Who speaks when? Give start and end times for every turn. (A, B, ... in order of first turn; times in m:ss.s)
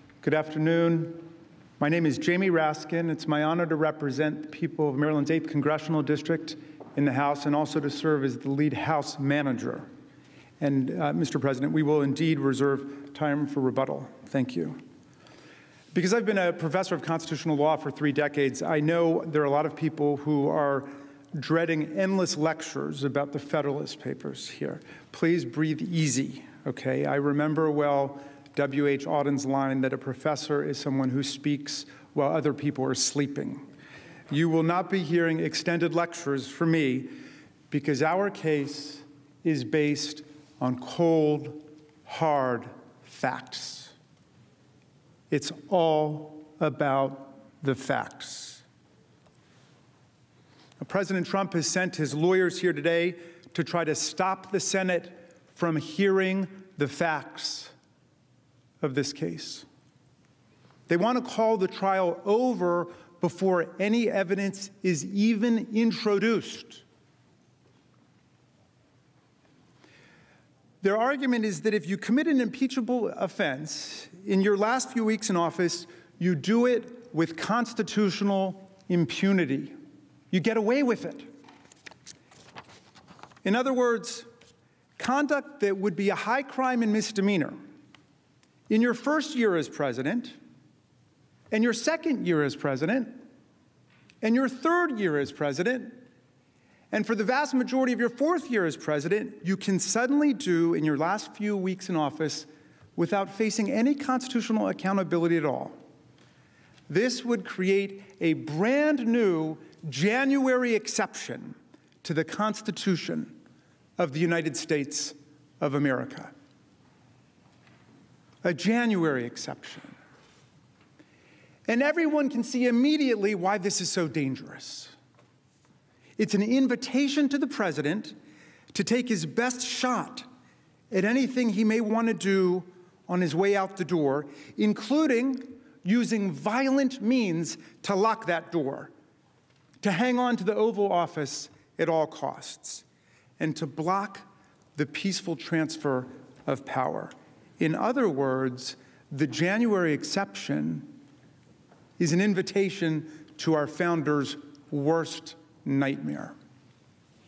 0:00.2-0:09.9 A
0:10.6-0:14.8 A
0:15.9-0:33.7 A
0:34.3-0:37.2 A
0:37.7-0:43.9 A
0:45.3-0:48.6 A
0:50.8-0:57.7 A
0:58.8-0:59.7 A
1:00.9-1:06.8 A
1:10.8-1:19.8 A
1:20.3-1:21.3 A
1:23.4-1:24.3 A
1:25.0-1:27.6 A
1:28.7-1:30.4 A
1:31.5-1:33.2 A
1:34.2-1:36.0 A
1:36.9-1:45.8 A
1:46.9-1:53.4 A
1:54.0-1:56.3 A
1:58.4-2:00.0 A
2:01.7-2:05.0 A
2:06.2-2:08.2 A
2:08.7-2:10.2 A
2:10.9-2:18.9 A
2:19.8-2:22.8 A
2:23.4-2:31.0 A
2:32.0-2:36.3 A